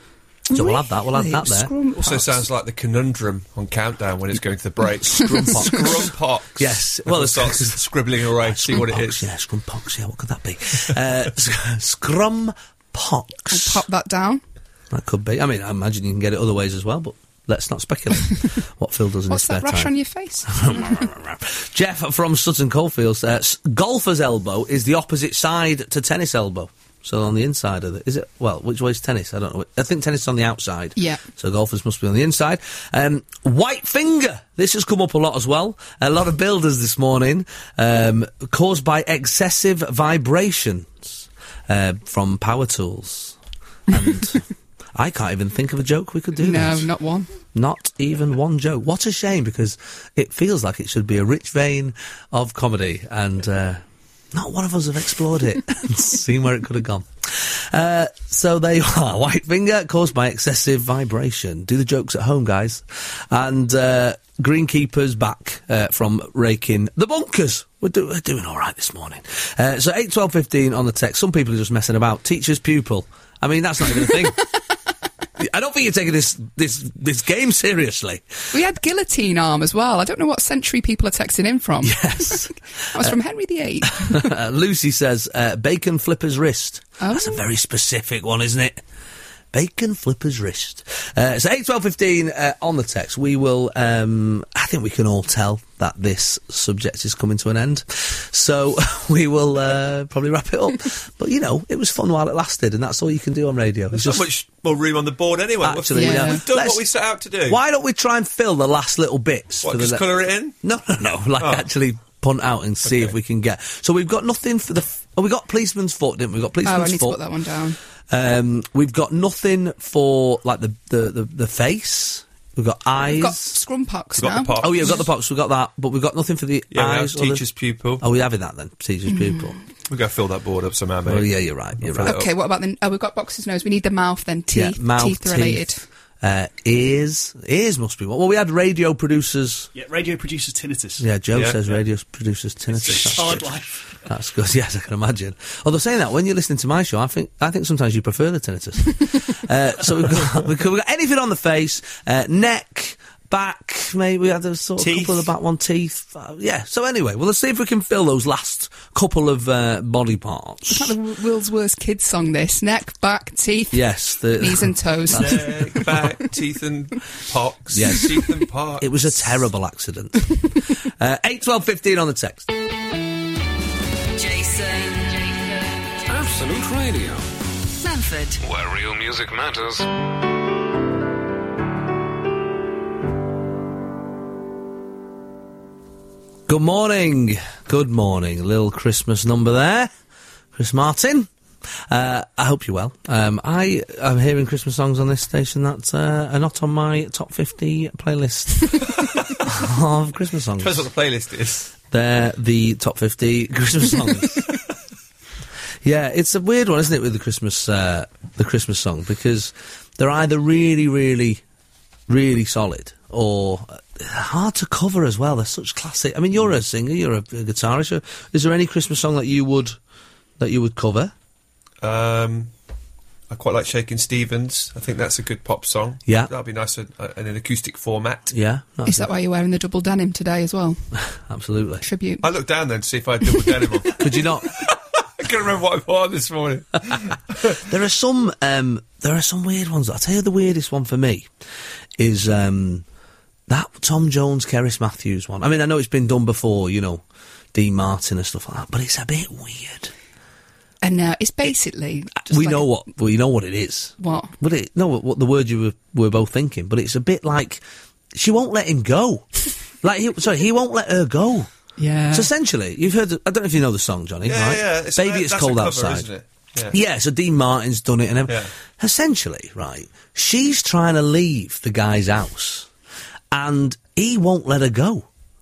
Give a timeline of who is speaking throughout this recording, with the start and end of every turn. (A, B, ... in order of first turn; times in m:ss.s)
0:00.5-0:01.7 A
0:00.5-0:02.4 B
0:02.0-0:09.3 C
0:05.0-0:13.8 A
0:05.3-0:05.6 B
0:13.5-0:14.4 B
0:14.9-0:43.4 A
0:19.3-0:21.1 B
0:43.9-0:44.4 A
0:45.0-0:46.9 A
0:46.4-0:47.3 B
0:47.5-0:53.8 A
0:54.3-1:14.5 A
1:15.4-1:18.3 A
1:18.5-1:24.3 B
1:21.8-1:23.2 A
1:23.8-1:28.8 A
1:27.0-1:27.4 B
1:29.5-1:44.2 A
1:43.9-1:47.6 C
1:45.6-1:46.9 A
1:45.9-1:46.4 B
1:47.4-1:50.0 A
1:49.6-1:50.6 C
1:50.6-1:57.2 A
1:51.4-1:51.7 C
1:52.9-1:53.1 C
1:56.6-1:57.8 B
1:58.1-2:03.6 A
2:03.0-2:05.0 B
2:04.2-2:05.0 C
2:04.6-2:07.4 A
2:06.7-2:08.0 C
2:08.0-2:09.6 A
2:09.1-2:09.6 B
2:09.9-2:11.3 C
2:11.0-2:12.2 A
2:11.8-2:12.3 C
2:12.0-2:15.8 B
2:14.5-2:15.7 A
2:16.2-2:19.7 A
2:19.8-2:21.0 D
2:21.0-2:41.0 A
2:21.3-2:21.8 C
2:22.8-2:24.0 D
2:22.8-2:23.3 C
2:34.8-2:35.3 C
2:40.7-2:46.1 B
2:43.7-2:46.1 A
2:45.1-2:49.4 C
2:47.7-2:48.2 A
2:48.8-2:52.5 A
2:54.2-2:56.0 E
2:56.1-2:57.3 F
2:57.8-2:58.4 E
2:58.4-2:59.9 F
3:06.5-3:09.9 A
3:10.6-3:11.3 A
3:11.9-3:20.9 A
3:19.0-3:19.3 C
3:20.6-3:21.7 C
3:21.9-3:24.5 A
3:25.8-3:31.4 A
3:32.1-3:39.8 A
3:40.4-3:41.1 A
3:41.8-3:42.5 C
3:43.3-3:48.3 C
3:46.1-3:46.3 A
3:48.3-3:49.1 A
3:48.9-3:50.8 B
3:51.1-3:51.8 A
3:51.8-3:52.2 B
3:52.2-3:57.6 C
3:54.0-3:54.5 A
3:57.5-4:01.3 A
4:02.0-4:02.8 A
4:03.5-4:09.9 A
4:10.8-4:12.7 B
4:12.2-4:19.3 A
4:14.0-4:14.3 B
4:19.8-4:21.5 A
4:21.8-4:22.3 B
4:22.1-4:26.1 A
4:24.2-4:26.8 C
4:26.7-4:32.7 A
4:33.3-4:35.1 A